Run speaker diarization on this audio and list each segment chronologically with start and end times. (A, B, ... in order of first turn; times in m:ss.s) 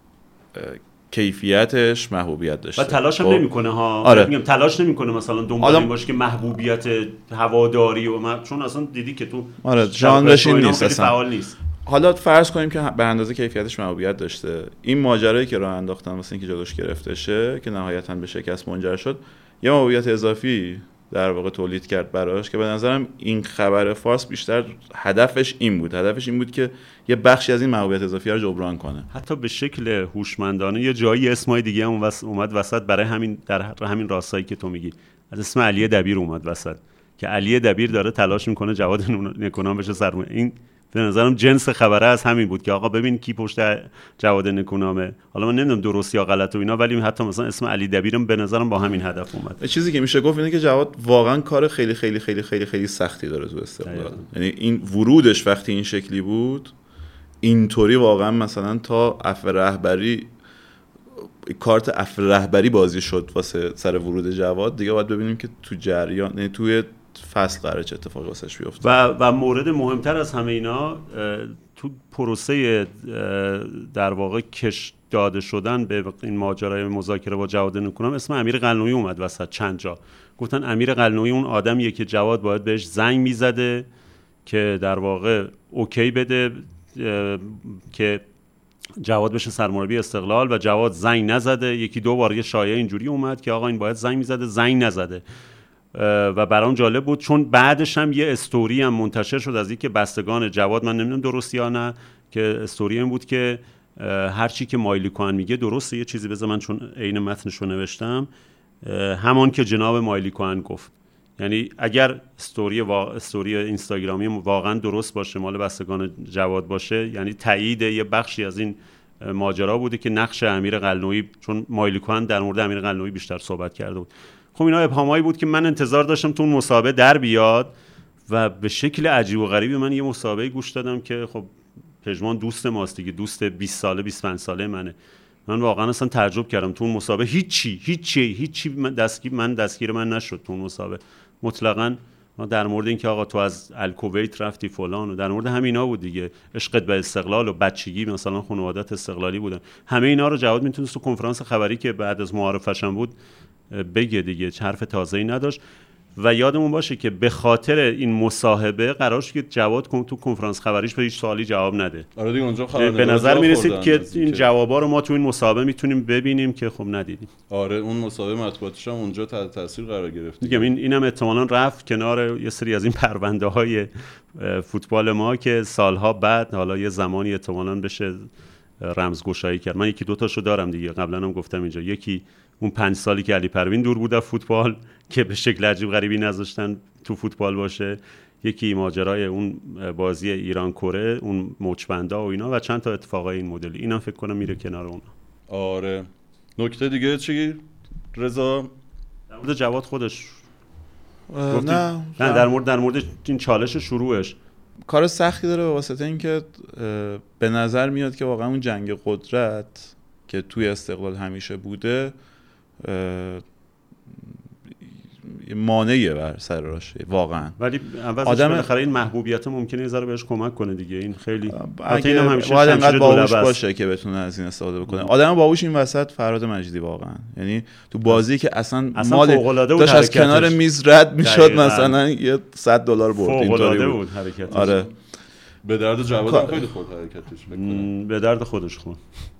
0:00.5-0:03.5 A
0:02.8-0:11.6 B
0:04.0-0:04.3 A
0:05.6-0:05.9 A
0:09.6-0:11.2 A
0:11.8-0:29.1 A
0:29.1-0:49.6 B
0:49.6-0:56.7 A
0:53.8-0:54.3 B
0:57.4-1:00.3 A
1:01.4-1:08.8 A
1:08.8-1:23.9 B
1:24.5-1:28.2 B
1:29.0-1:35.2 B
1:35.9-1:48.3 B
1:48.8-2:07.7 B
2:08.3-2:15.0 B
2:15.5-2:33.2 B
2:33.7-2:35.6 B
2:36.2-2:42.1 B
2:42.2-2:44.4 C
2:42.8-2:47.3 B
2:47.5-2:50.7 C
2:50.4-2:58.3 B
2:58.8-3:15.1 B
3:15.5-3:17.6 C
3:18.1-3:18.7 C
3:19.3-3:20.4 B
3:21.3-3:22.5 A
3:21.5-3:24.4 B
3:24.9-3:32.2 A
3:32.8-3:33.4 A
3:35.2-3:37.6 A
3:37.6-3:43.6 B
3:38.2-3:38.7 A
3:41.5-3:54.9 A
3:49.0-3:50.6 B
3:51.2-3:52.0 B
3:53.2-3:54.8 B
3:54.5-3:54.8 C
3:55.6-3:57.9 C
3:56.2-3:56.7 A
3:57.5-3:59.0 B